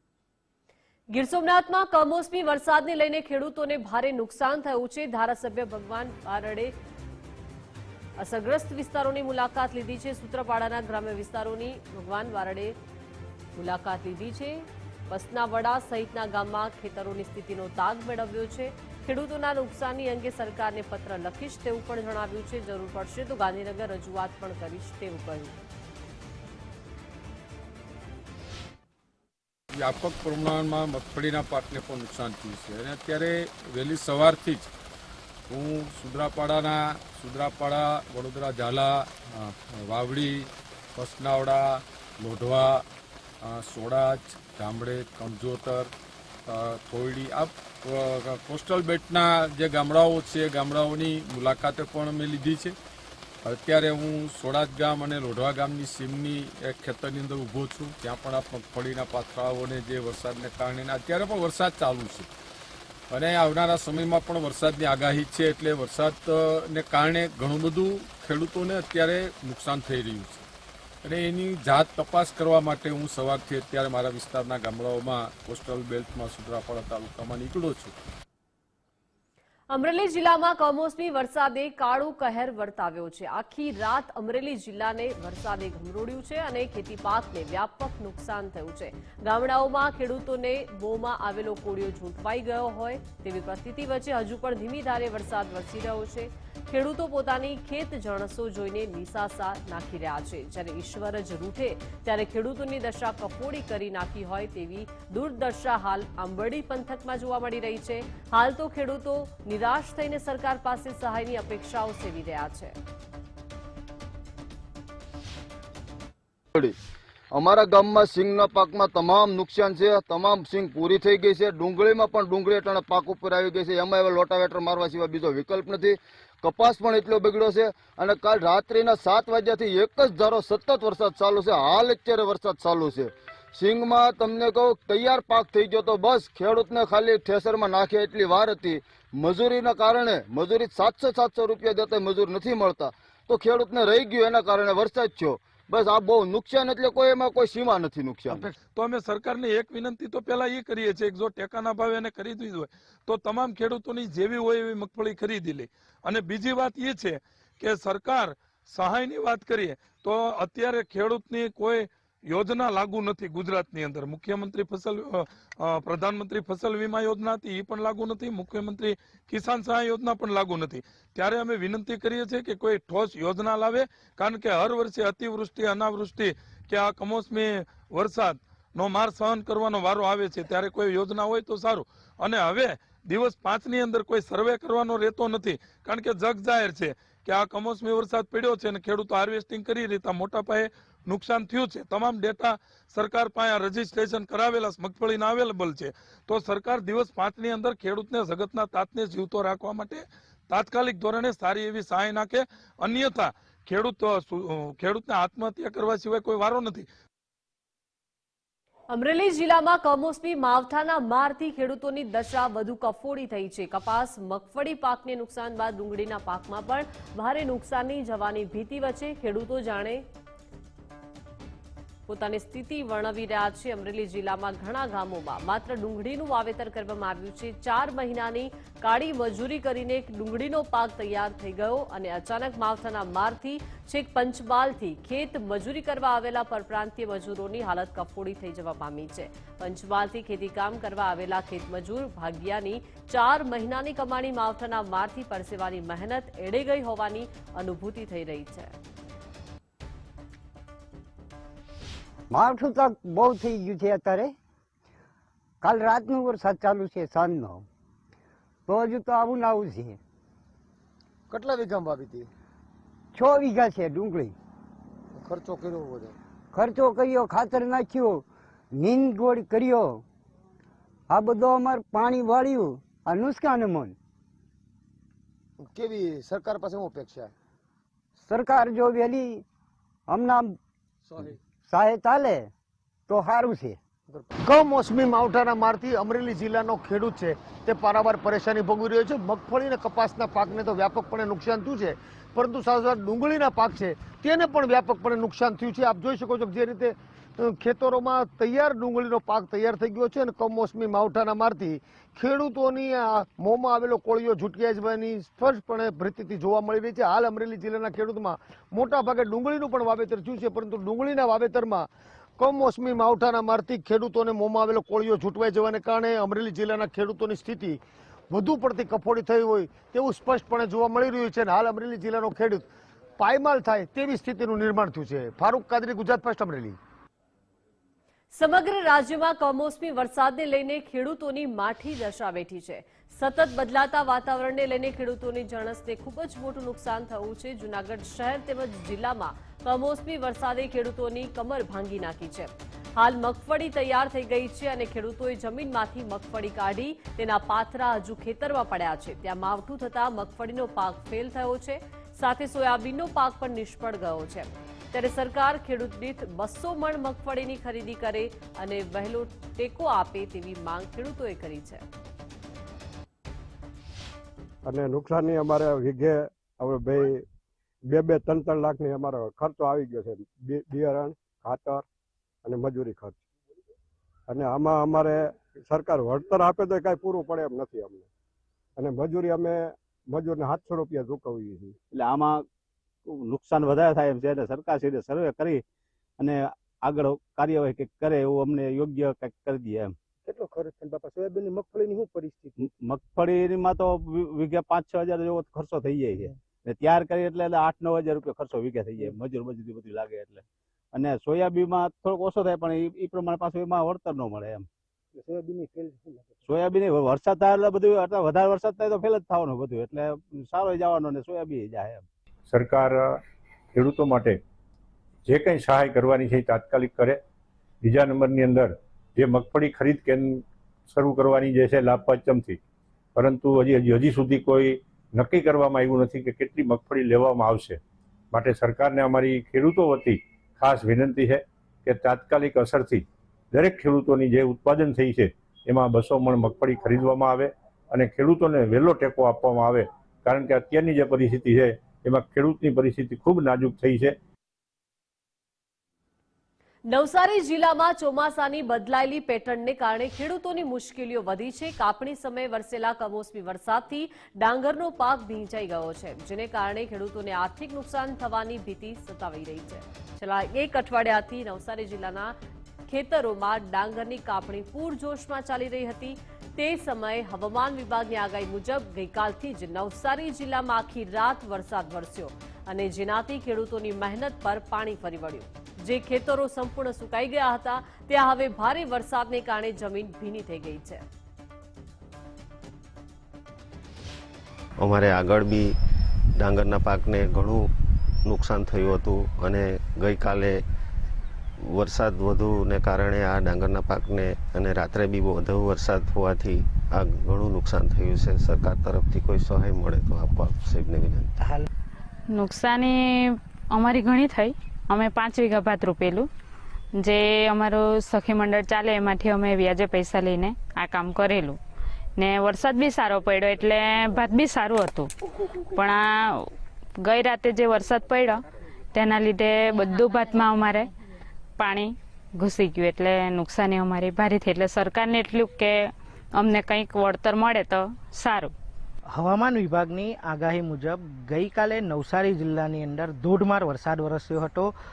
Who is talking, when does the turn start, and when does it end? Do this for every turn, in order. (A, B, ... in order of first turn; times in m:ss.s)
0:01.1-0:06.7 A
0:08.2-0:12.8 A
0:13.6-0:25.6 A
0:29.8-0:34.7 B
0:35.5-0:42.8 B
0:43.4-0:45.9 B
0:46.5-0:52.8 B
0:53.4-1:02.3 B
1:03.1-1:10.4 B
1:11.0-1:17.9 B
1:19.7-1:52.8 A
1:57.3-2:28.4 C
2:28.8-3:26.9 D
3:28.9-3:40.0 A
3:42.1-4:08.7 A
4:12.3-4:14.3 E
4:15.6-4:17.6 E
4:18.7-4:20.0 E
4:21.3-4:22.3 F
4:23.1-4:24.3 E
4:25.2-4:26.2 F
4:26.5-4:30.0 E
4:31.1-4:34.0 E
4:35.6-4:37.3 F
4:38.3-4:39.4 E
4:40.1-4:40.6 E
4:41.7-4:42.5 E
4:43.1-4:43.8 E
4:44.1-5:22.7 F
5:23.2-5:26.8 F
5:28.3-6:01.8 A
6:04.7-6:07.1 G
6:08.0-6:11.8 G
6:12.5-6:13.2 G
6:14.3-6:15.2 G
6:15.8-6:18.0 G
6:19.0-6:19.5 G
6:20.2-6:21.6 G
6:22.0-6:22.4 H
6:23.2-6:25.6 H
6:26.9-6:29.9 H
6:32.8-6:36.0 H
6:33.1-6:33.7 I
6:35.6-6:36.3 I
6:36.7-6:40.4 H
6:41.0-6:44.6 H
6:46.5-6:52.0 H
6:52.5-6:53.0 I
6:53.8-6:54.4 I
6:55.3-6:57.2 I
6:57.8-7:02.6 I
7:03.2-7:07.8 I
7:08.3-7:24.2 I
7:26.9-7:42.4 A
7:42.9-8:01.0 A
8:04.8-8:05.7 J
8:06.4-8:07.7 J
8:08.2-8:10.6 J
8:11.7-8:21.3 J
8:22.3-8:26.3 K
8:27.0-8:31.6 K
8:32.2-8:35.1 K
8:35.7-8:36.4 K
8:37.0-8:38.4 K
8:38.9-8:40.9 K
8:41.6-8:48.5 K
8:49.1-8:54.7 L